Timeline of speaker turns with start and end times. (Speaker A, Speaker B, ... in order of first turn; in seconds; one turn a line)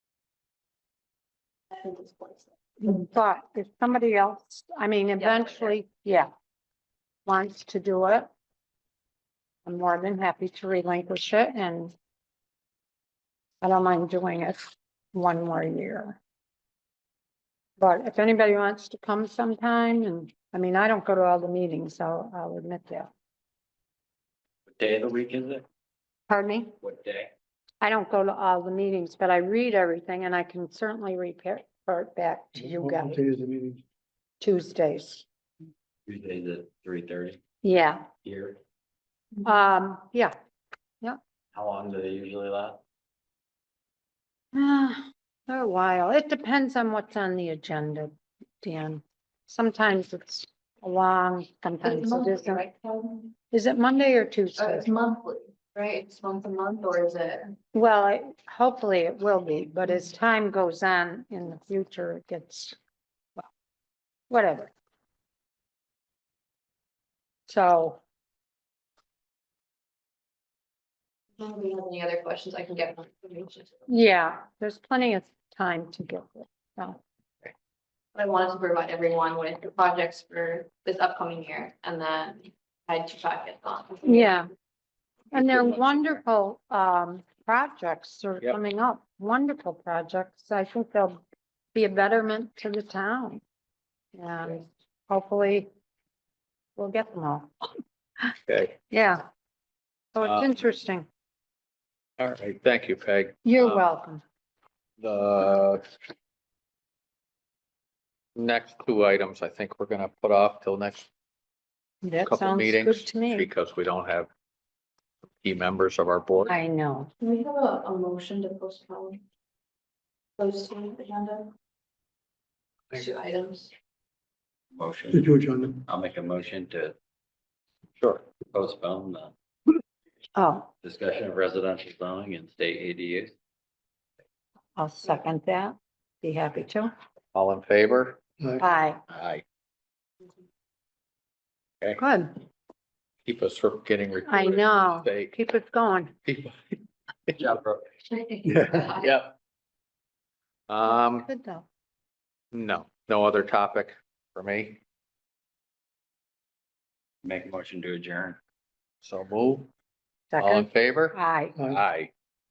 Speaker A: 1.7-3.0
Speaker B: 2.8-6.3
Speaker A: 5.2-5.8
Speaker B: 7.3-8.3
Speaker B: 9.7-11.9
Speaker B: 13.6-16.2
Speaker B: 17.8-23.1
Speaker C: 24.7-25.7
Speaker B: 26.3-26.8
Speaker C: 26.8-27.3
Speaker B: 27.8-33.2
Speaker D: 32.6-33.8
Speaker B: 34.4-35.2
Speaker C: 36.1-37.4
Speaker B: 37.6-38.1
Speaker C: 38.2-38.6
Speaker B: 39.4-40.4
Speaker C: 41.5-42.8
Speaker B: 44.5-52.6
Speaker A: 51.8-53.3
Speaker B: 53.5-54.9
Speaker A: 54.5-57.5
Speaker B: 57.7-62.8
Speaker B: 64.3-64.7
Speaker B: 67.5-68.0
Speaker A: 71.4-73.9
Speaker B: 73.9-77.0
Speaker A: 78.2-84.4
Speaker B: 84.0-84.5
Speaker B: 85.3-91.2
Speaker E: 85.3-86.2
Speaker B: 91.7-93.4
Speaker B: 94.1-95.7
Speaker B: 96.8-97.5
Speaker E: 98.5-98.8
Speaker B: 98.9-99.3
Speaker B: 100.2-101.1
Speaker E: 100.2-100.5
Speaker E: 102.2-103.8
Speaker B: 103.5-104.2
Speaker E: 105.0-105.8
Speaker E: 108.4-111.1
Speaker B: 112.0-113.5
Speaker E: 112.2-114.3
Speaker E: 115.4-116.6
Speaker B: 116.5-117.1
Speaker A: 117.2-119.2
Speaker A: 120.4-121.5
Speaker A: 122.9-123.7
Speaker C: 124.8-125.3
Speaker D: 125.1-125.8
Speaker C: 125.9-127.0
Speaker E: 128.0-128.3
Speaker C: 128.4-129.3
Speaker B: 130.4-130.7
Speaker C: 130.8-133.3
Speaker B: 134.8-136.9
Speaker E: 137.3-138.2
Speaker B: 138.6-139.0
Speaker E: 139.1-139.4
Speaker B: 142.0-142.4
Speaker E: 143.3-145.3
Speaker B: 144.3-146.1
Speaker E: 146.2-147.4
Speaker C: 147.4-147.8
Speaker A: 148.0-149.1
Speaker E: 148.8-149.3
Speaker E: 150.7-151.3
Speaker B: 151.2-151.7
Speaker E: 152.5-154.8
Speaker C: 157.2-158.4
Speaker E: 159.0-159.7
Speaker B: 160.3-161.6
Speaker E: 160.4-161.2
Speaker E: 161.7-162.1